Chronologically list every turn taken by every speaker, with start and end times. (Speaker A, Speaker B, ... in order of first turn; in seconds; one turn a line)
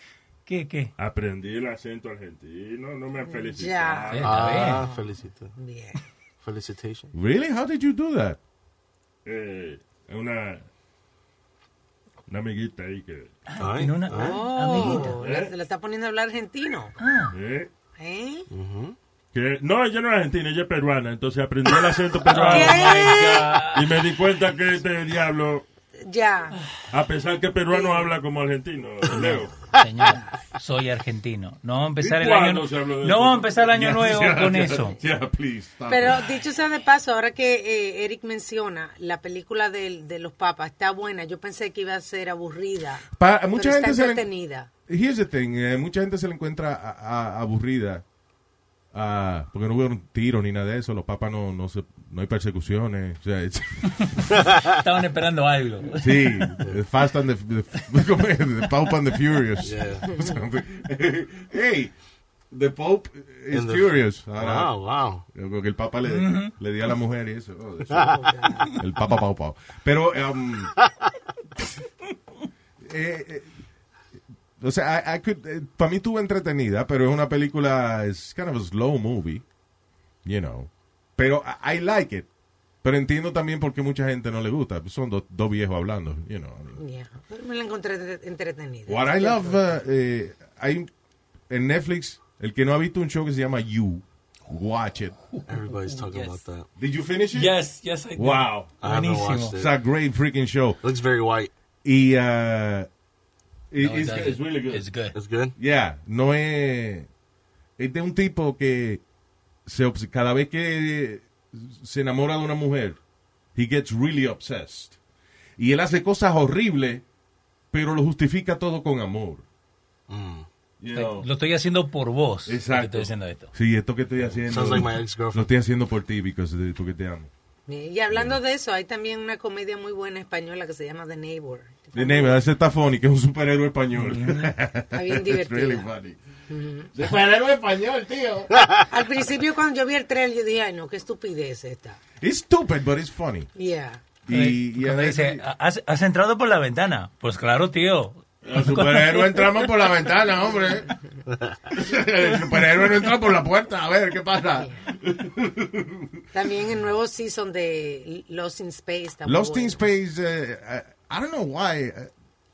Speaker A: 0.5-0.9
Speaker B: 1.0-4.7
Speaker C: 3.2-6.0
Speaker A: 4.1-4.8
Speaker D: 4.2-5.5
Speaker D: 6.4-7.1
Speaker E: 7.1-8.4
Speaker B: 9.2-10.6
Speaker B: 12.3-13.4
Speaker A: 13.5-15.2
Speaker D: 13.6-14.4
Speaker C: 14.1-16.9
Speaker B: 15.1-15.5
Speaker A: 17.0-17.3
Speaker B: 17.3-17.7
Speaker C: 18.0-18.5
Speaker D: 18.5-18.9
Speaker B: 19.3-25.6
Speaker A: 22.3-24.0
Speaker C: 22.4-23.5
Speaker C: 26.0-26.6
Speaker B: 26.9-29.7
Speaker C: 27.7-28.1
Speaker A: 29.1-35.0
Speaker B: 32.0-34.8
Speaker E: 33.8-36.2
Speaker C: 35.9-44.7
Speaker E: 43.1-44.2
Speaker E: 44.9-48.0
Speaker E: 48.9-54.2
Speaker A: 54.7-56.5
Speaker E: 55.9-61.9
Speaker D: 59.6-60.1
Speaker E: 62.5-68.2
Speaker D: 63.5-65.2
Speaker A: 66.0-66.5
Speaker C: 68.0-68.7
Speaker E: 68.7-70.7
Speaker E: 72.8-73.5
Speaker E: 74.6-79.4
Speaker E: 80.2-82.3
Speaker E: 82.8-86.8
Speaker C: 86.8-89.8
Speaker E: 88.9-90.9
Speaker E: 91.5-95.2
Speaker D: 95.5-96.7
Speaker A: 95.7-96.4
Speaker E: 96.8-97.5
Speaker A: 97.3-99.6
Speaker E: 98.1-98.7
Speaker D: 98.8-99.7
Speaker E: 99.5-100.8
Speaker D: 100.8-101.5
Speaker E: 101.8-102.9
Speaker E: 103.7-104.8
Speaker A: 103.8-105.2
Speaker D: 105.1-105.5
Speaker E: 105.6-107.1
Speaker E: 107.8-109.0
Speaker E: 109.7-113.0
Speaker E: 113.5-115.0
Speaker E: 115.6-117.0
Speaker E: 117.7-119.4
Speaker D: 120.1-120.5
Speaker E: 120.8-121.3
Speaker A: 120.9-123.5
Speaker E: 122.5-127.3
Speaker D: 124.5-125.5
Speaker C: 127.7-132.4
Speaker E: 128.1-128.4
Speaker E: 131.9-136.2
Speaker A: 133.9-134.5
Speaker C: 134.9-135.9
Speaker C: 136.5-136.9
Speaker E: 136.9-138.5
Speaker C: 138.9-142.0
Speaker E: 142.2-143.5
Speaker C: 143.5-144.0
Speaker E: 144.2-145.4
Speaker A: 144.3-149.7
Speaker E: 148.4-150.9
Speaker D: 151.3-151.6
Speaker E: 151.7-156.2
Speaker C: 156.3-159.8
Speaker E: 159.2-162.1